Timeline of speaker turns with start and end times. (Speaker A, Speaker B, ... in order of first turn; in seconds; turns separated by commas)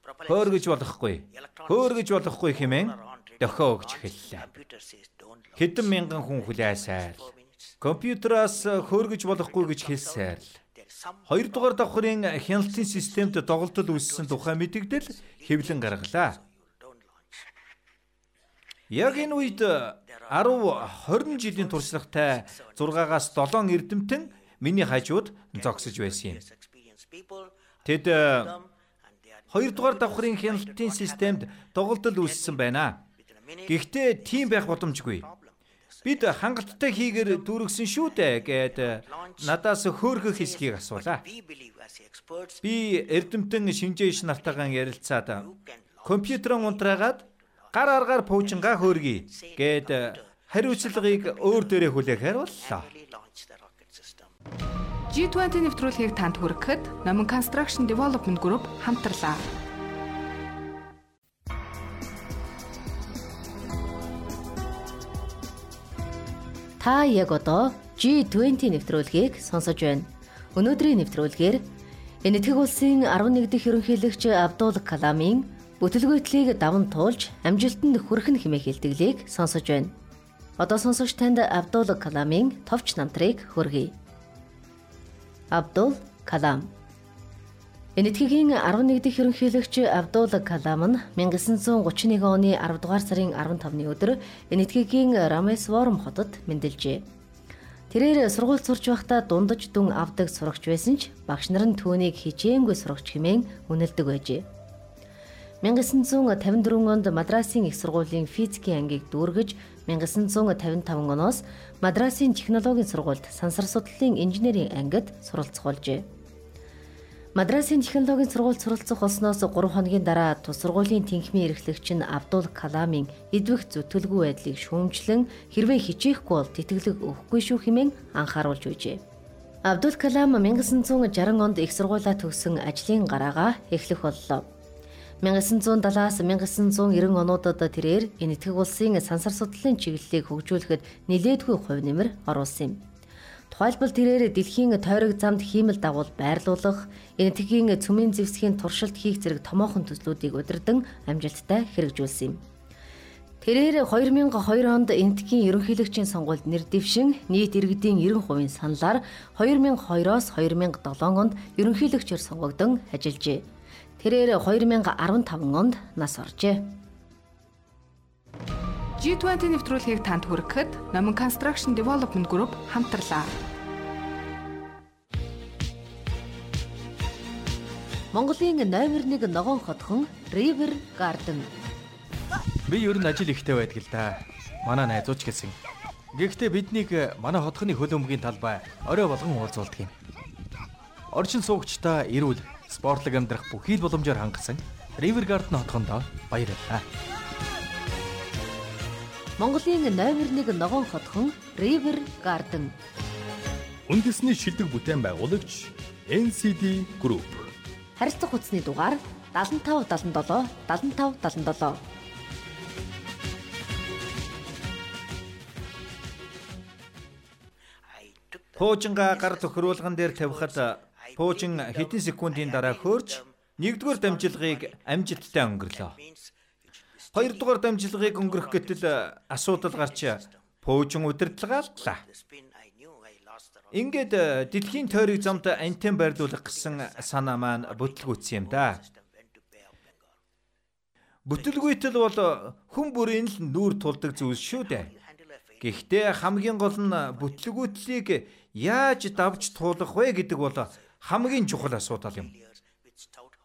Speaker A: 0.2-4.5, Speaker A: 5.5-10.5, Speaker A: 11.3-16.4, Speaker A: 18.9-26.4, Speaker A: 27.8-28.6, Speaker A: 29.5-33.0, Speaker A: 33.7-35.3, Speaker A: 36.0-41.2, Speaker A: 42.6-53.0, Speaker B: 55.1-59.4, Speaker C: 66.8-71.6, Speaker C: 72.2-79.9, Speaker C: 80.6-83.9, Speaker C: 85.5-86.7, Speaker C: 88.0-97.0, Speaker C: 97.9-104.4, Speaker C: 105.6-116.0, Speaker C: 117.3-129.0, Speaker C: 129.6-134.5, Speaker C: 135.2-142.8, Speaker C: 143.5-152.4, Speaker C: 153.4-163.4, Speaker C: 164.0-166.7, Speaker B: 169.0-173.3, Speaker C: 178.1-181.5, Speaker D: 182.6-185.6, Speaker D: 186.1-189.9, Speaker D: 191.1-196.8, Speaker C: 199.4-202.7, Speaker E: 203.9-207.5, Speaker C: 208.0-211.8, Speaker A: 218.6-226.0, Speaker A: 227.1-232.0, Speaker A: 233.7-238.8, Speaker A: 241.2-244.9, Speaker A: 245.6-252.3